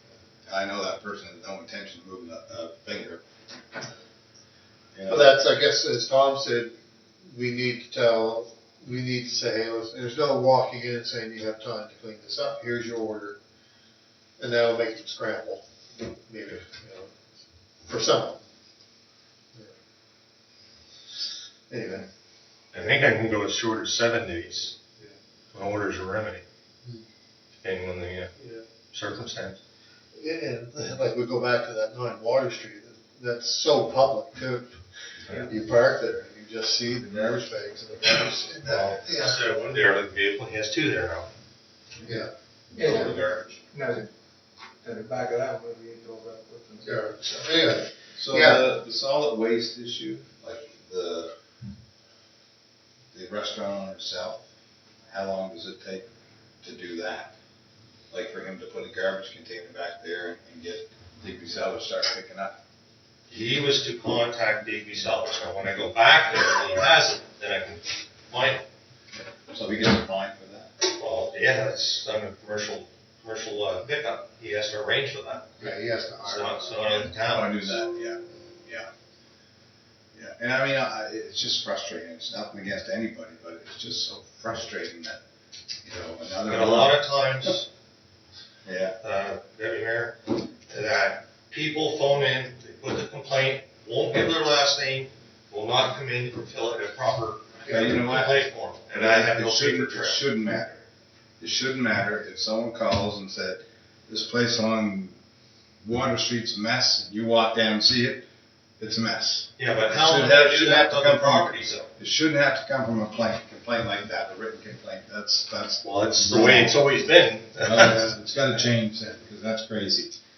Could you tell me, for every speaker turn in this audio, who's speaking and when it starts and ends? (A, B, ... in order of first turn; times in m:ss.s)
0:00.5-0:03.2 A
0:04.9-0:05.4 A
0:05.1-0:13.4 B
0:14.4-0:17.3 B
0:17.9-0:18.4 B
0:21.7-0:22.0 B
0:22.7-0:24.7 C
0:25.5-0:26.4 C
0:27.6-0:28.3 C
0:28.4-0:28.6 B
0:28.9-0:29.6 C
0:30.1-0:34.8 B
0:35.4-0:39.4 B
0:38.6-0:41.3 C
0:42.0-0:43.2 B
0:42.8-0:44.1 D
0:42.8-0:43.6 C
0:44.8-0:47.0 D
0:46.8-0:48.7 B
0:48.2-0:51.3 A
0:53.1-0:54.4 A
0:55.1-0:56.1 A
0:56.6-0:57.3 A
0:58.1-1:02.6 A
1:03.3-1:08.6 C
1:09.5-1:10.7 A
1:10.9-1:17.8 C
1:15.6-1:16.8 B
1:17.3-1:18.9 A
1:20.1-1:25.2 A
1:25.8-1:27.0 A
1:26.4-1:27.7 C
1:28.6-1:29.0 A
1:29.0-1:40.2 C
1:37.6-1:38.0 B
1:37.7-1:40.8 A
1:41.4-1:45.2 A
1:45.8-1:48.2 A
1:48.8-1:56.8 A
1:49.6-1:51.9 C
1:55.8-1:58.0 C
1:57.6-2:00.2 A
1:57.7-1:58.7 B